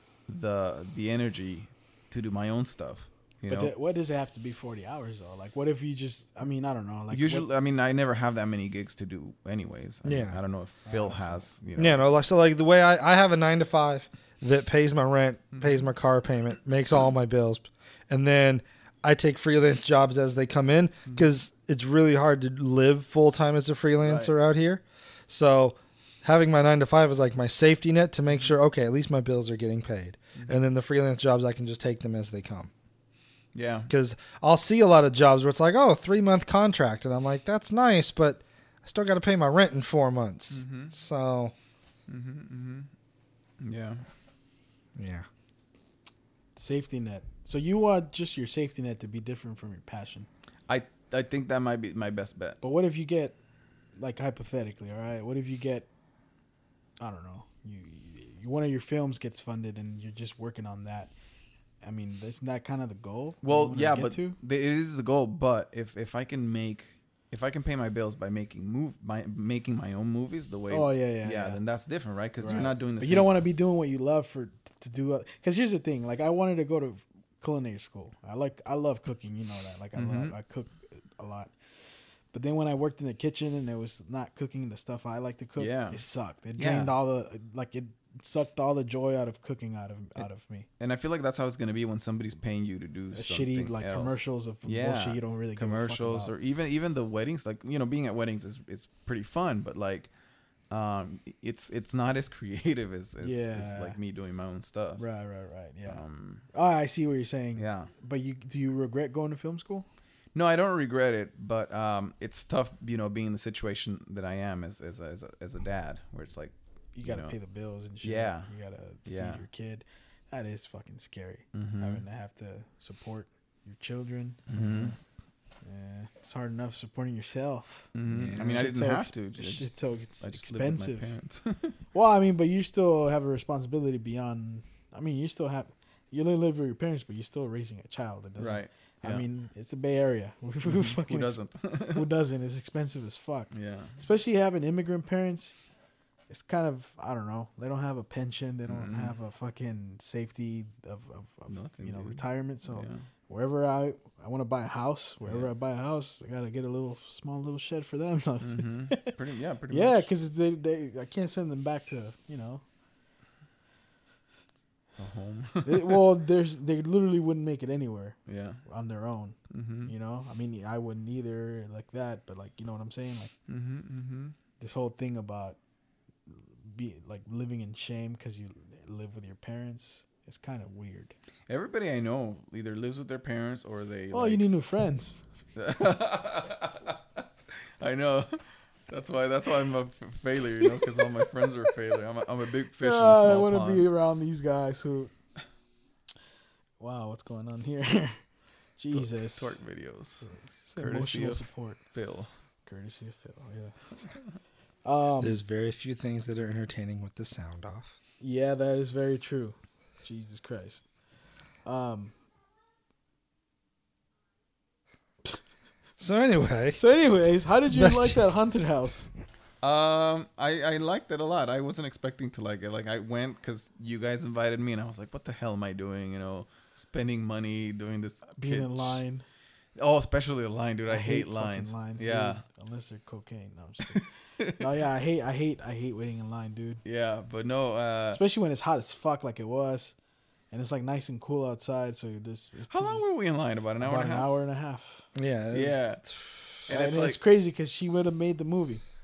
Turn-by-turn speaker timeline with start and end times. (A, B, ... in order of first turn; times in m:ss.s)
0:00.3-0:03.7 A
0:03.5-0:07.5 B
0:07.1-0:12.1 A
0:10.0-0:10.4 C
0:10.9-0:11.4 B
0:11.8-0:32.7 C
0:15.5-0:15.9 A
0:21.1-0:21.4 A
0:24.0-0:24.3 A
0:33.5-0:33.9 A
0:33.9-0:41.5 C
0:40.5-0:40.9 A
0:42.1-0:42.9 A
0:43.6-0:44.0 A
0:45.0-0:45.3 C
0:46.6-0:50.3 B
0:50.7-0:52.6 A
0:52.6-0:53.4 B
0:54.0-0:55.9 B
0:57.0-1:01.1 B
1:01.8-1:04.4 B
1:03.4-1:13.3 A
1:10.7-1:11.6 B
1:12.4-1:21.5 B
1:20.0-1:20.4 A
1:22.3-1:30.7 B
1:25.6-1:26.0 A
1:26.6-1:26.9 A
1:30.8-1:40.1 A
1:33.1-1:36.3 B
1:40.7-1:45.0 A
1:43.2-1:44.0 B
1:45.0-1:46.0 B
1:45.9-1:46.4 A
1:46.5-1:49.9 B
1:47.6-1:47.9 A
1:50.4-1:57.4 A
1:57.0-2:05.0 B
1:58.0-1:58.5 A
1:59.1-1:59.4 A
2:01.5-2:02.0 A
2:04.5-2:05.0 A
2:05.6-2:11.1 B
2:08.0-2:09.7 A
2:08.1-2:08.6 C
2:10.2-2:11.8 A
2:11.9-2:21.4 B
2:18.4-2:19.2 A
2:20.7-2:22.1 A
2:21.9-2:25.6 B
2:23.5-2:24.0 A
2:26.3-2:39.2 B
2:28.7-2:29.1 A
2:31.5-2:33.0 A
2:35.2-2:35.5 A
2:38.4-2:40.1 A
2:39.7-2:42.6 B
2:45.0-2:46.0 A
2:45.6-2:53.3 B
2:48.3-2:48.6 A
2:49.5-2:49.9 A
2:53.5-2:54.4 A
2:54.6-2:55.6 B
2:56.3-3:01.1 B
3:01.5-3:04.4 A
3:04.1-3:05.2 B
3:05.6-3:07.0 A
3:07.8-3:13.9 A
3:12.8-3:15.1 B
3:16.8-3:18.2 B
3:18.8-3:19.6 B
3:18.9-3:22.3 A
3:20.2-3:21.8 B
3:22.7-3:24.1 B
3:24.8-3:25.4 B
3:25.2-3:27.9 C
3:28.2-3:30.8 B
3:31.6-3:32.1 B
3:36.0-3:36.8 C
3:36.8-3:39.1 B
3:37.7-3:38.2 C
3:39.6-3:49.0 A
3:48.4-3:49.2 B
3:49.8-3:52.4 A
3:50.9-3:56.8 B
3:53.9-3:54.5 A
3:56.8-3:58.2 A
3:58.1-4:00.0 B
4:00.5-4:03.0 B
4:02.7-4:04.3 A
4:03.8-4:05.1 B
4:05.2-4:06.4 C
4:05.5-4:06.0 A
4:06.7-4:07.2 A
4:06.7-4:08.8 B